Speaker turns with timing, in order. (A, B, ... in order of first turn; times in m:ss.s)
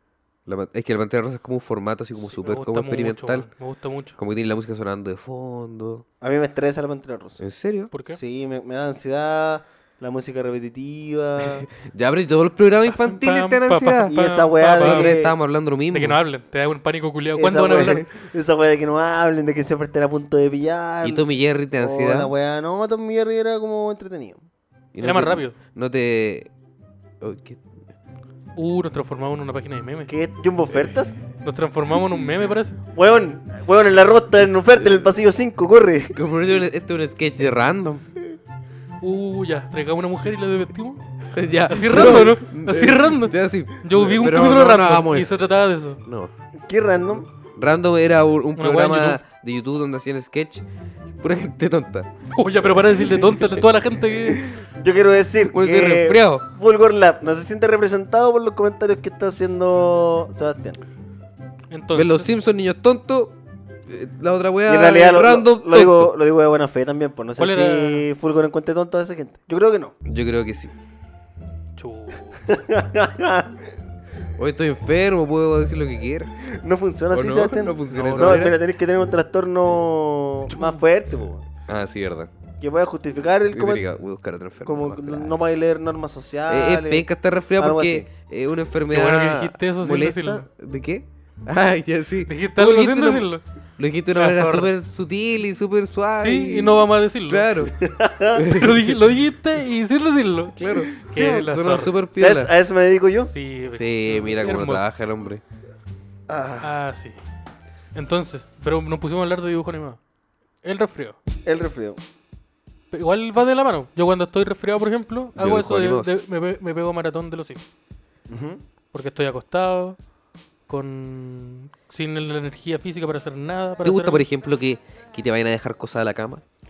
0:00.4-0:03.5 A
0:02.2-0:04.2 B
0:04.2-0:06.0 A
0:06.2-0:07.4 C
0:07.4-0:07.9 A
0:07.9-0:08.2 B
0:08.1-0:11.7 C
0:11.4-0:14.1 A
0:12.9-0:15.1 B
0:14.0-0:15.3 C
0:14.8-0:16.2 A
0:15.9-0:18.1 B
0:17.4-0:24.4 C
0:21.0-0:22.3 A
0:24.9-0:26.5 A
0:25.0-0:25.6 B
0:27.2-0:27.8 A
0:28.6-0:30.1 B
0:30.1-0:31.2 C
0:31.4-0:32.8 B
0:32.9-0:36.2 C
0:34.8-0:35.1 A
0:36.1-0:38.1 A
0:39.0-0:41.0 B
0:41.3-0:45.4 A
0:41.7-0:46.0 B
0:46.0-0:46.3 A
0:46.6-0:47.3 C
0:47.6-0:52.1 A
0:48.6-0:49.2 B
0:52.3-0:54.5 B
0:54.4-1:00.8 C
0:55.5-0:56.4 A
1:01.7-1:02.3 B
1:01.9-1:03.4 A
1:03.9-1:06.1 A
1:04.7-1:09.9 C
1:07.4-1:08.1 B
1:10.0-1:10.7 A
1:11.8-1:12.4 B
1:12.5-1:13.6 C
1:14.4-1:16.3 A
1:16.4-1:21.5 C
1:17.1-1:18.6 A
1:17.9-1:18.5 B
1:21.6-1:22.3 A
1:22.6-1:23.8 C
1:23.5-1:25.4 A
1:24.6-1:28.1 C
1:26.5-1:37.7 A
1:28.9-1:30.5 B
1:32.2-1:33.4 B
1:34.1-1:34.7 B
1:36.2-1:37.7 B
1:37.8-1:38.4 C
1:38.3-1:39.0 A
1:38.5-1:42.0 B
1:40.6-1:42.5 A
1:42.1-1:43.3 C
1:43.3-1:44.8 B
1:43.7-1:45.4 A
1:46.3-1:46.7 C
1:46.6-1:47.2 B
1:47.9-1:50.0 B
1:50.6-1:51.2 B
1:51.4-1:52.0 C
1:52.9-1:57.7 B
1:55.4-1:56.1 A
1:58.3-1:58.6 C
1:58.9-2:00.0 B
2:00.7-2:04.2 B
2:03.8-2:06.4 A